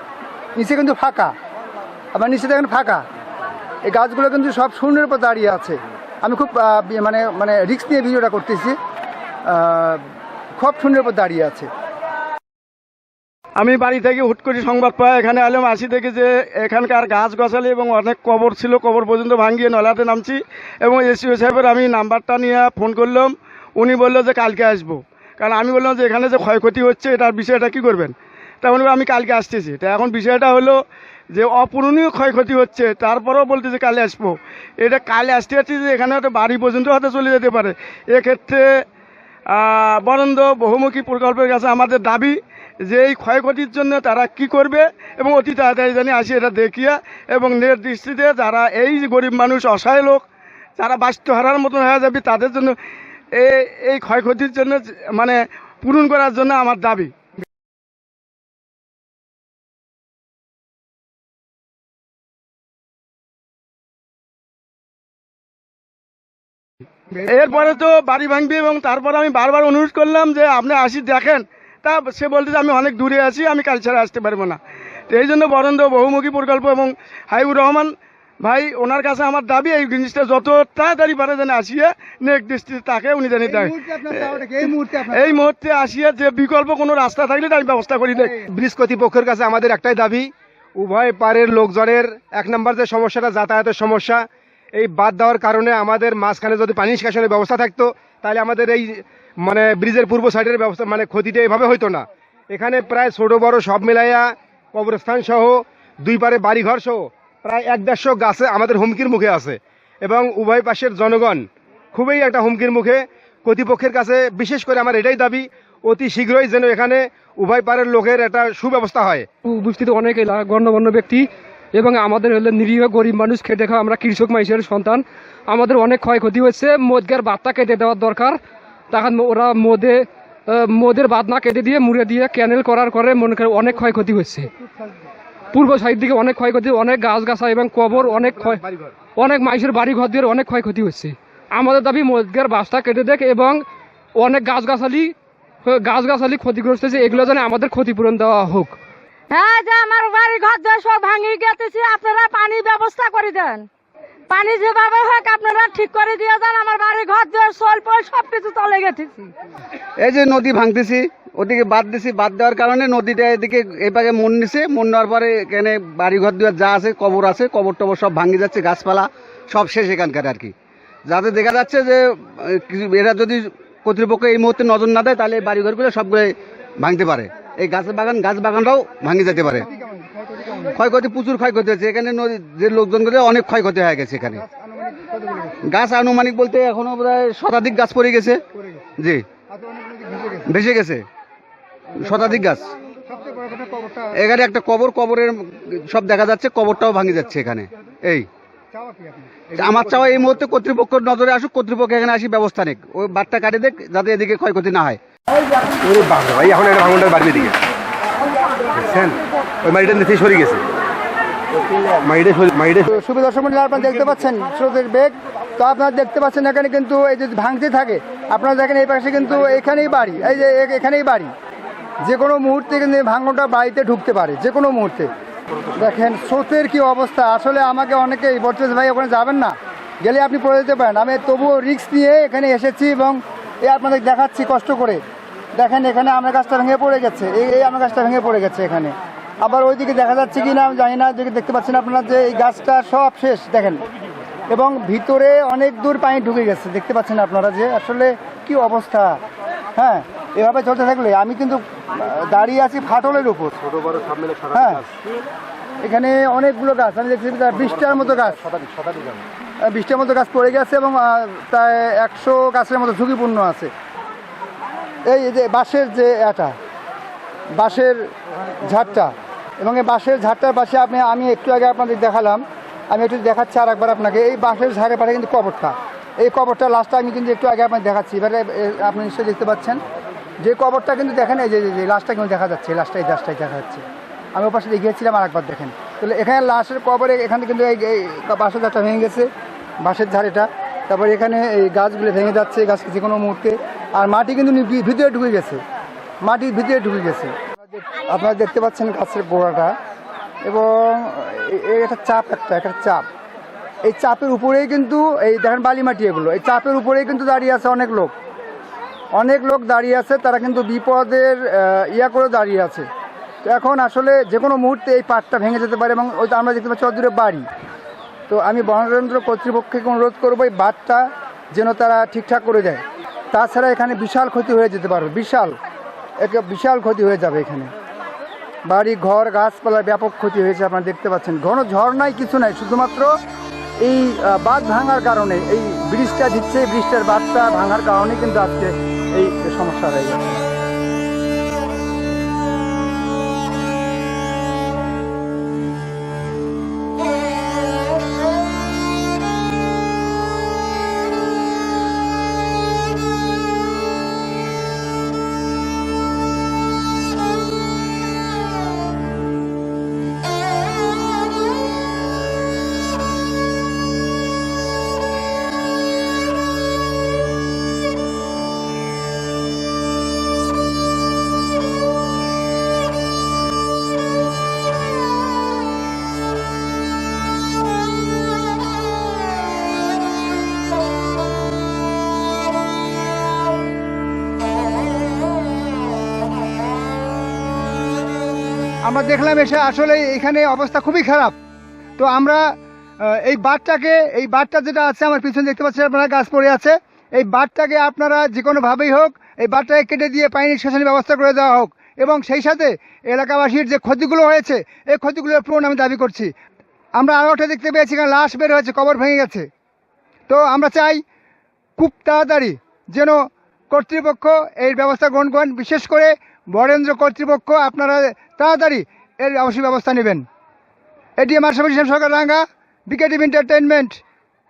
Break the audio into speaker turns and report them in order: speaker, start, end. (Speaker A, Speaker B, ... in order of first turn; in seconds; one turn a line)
Speaker A: 0.6-1.3
Speaker A: 2.1-3.0
Speaker A: 3.8-8.8
Speaker A: 9.5-10.0
Speaker A: 10.6-11.7
Speaker B: 13.6-30.8
Speaker B: 31.3-38.6
Speaker B: 39.5-50.2
Speaker B: 50.8-52.7
Speaker B: 53.4-57.1
Speaker B: 67.2-74.6
Speaker B: 75.1-83.7
Speaker A: 83.4-85.4
Speaker B: 85.1-88.4
Speaker C: 88.4-119.3
Speaker D: 119.5-128.4
Speaker D: 128.9-134.5
Speaker D: 135.5-138.6
Speaker C: 138.1-138.9
Speaker D: 139.1-143.6
Speaker D: 144.2-145.1
Speaker D: 145.7-148.8
Speaker E: 149.3-153.7
Speaker E: 154.3-159.3
Speaker F: 160.0-170.5
Speaker F: 171.1-179.7
Speaker A: 179.7-180.7
Speaker F: 180.7-184.4
Speaker A: 184.4-185.6
Speaker F: 185.7-188.4
Speaker A: 188.6-188.9
Speaker F: 189.0-189.2
Speaker A: 189.5-190.5
Speaker F: 190.5-191.0
Speaker F: 192.0-192.7
Speaker A: 193.1-194.1
Speaker F: 194.1-198.3
Speaker A: 198.7-199.5
Speaker F: 199.6-205.0
Speaker C: 205.8-207.6
Speaker C: 208.7-210.6
Speaker C: 212.0-212.9
Speaker A: 212.9-221.3
Speaker A: 222.0-225.1
Speaker A: 225.8-235.0
Speaker A: 235.6-243.8
Speaker A: 244.5-249.2
Speaker A: 249.8-253.7
Speaker C: 253.8-254.4
Speaker A: 254.5-254.8
Speaker A: 255.8-258.5
Speaker C: 258.7-259.1
Speaker A: 259.6-263.7
Speaker A: 265.1-266.5
Speaker A: 267.6-268.1
Speaker A: 268.6-279.8
Speaker A: 280.4-289.3
Speaker A: 289.8-295.6
Speaker A: 296.2-299.7
Speaker A: 300.4-303.0
Speaker A: 303.8-308.1
Speaker A: 309.1-312.9
Speaker A: 313.4-317.5
Speaker A: 318.3-325.6
Speaker A: 326.2-327.7
Speaker A: 328.6-333.1
Speaker A: 333.8-340.4
Speaker A: 388.8-391.3
Speaker A: 392.0-406.3
Speaker A: 407.0-409.5
Speaker A: 410.3-411.0
Speaker A: 411.8-420.2
Speaker A: 421.2-424.0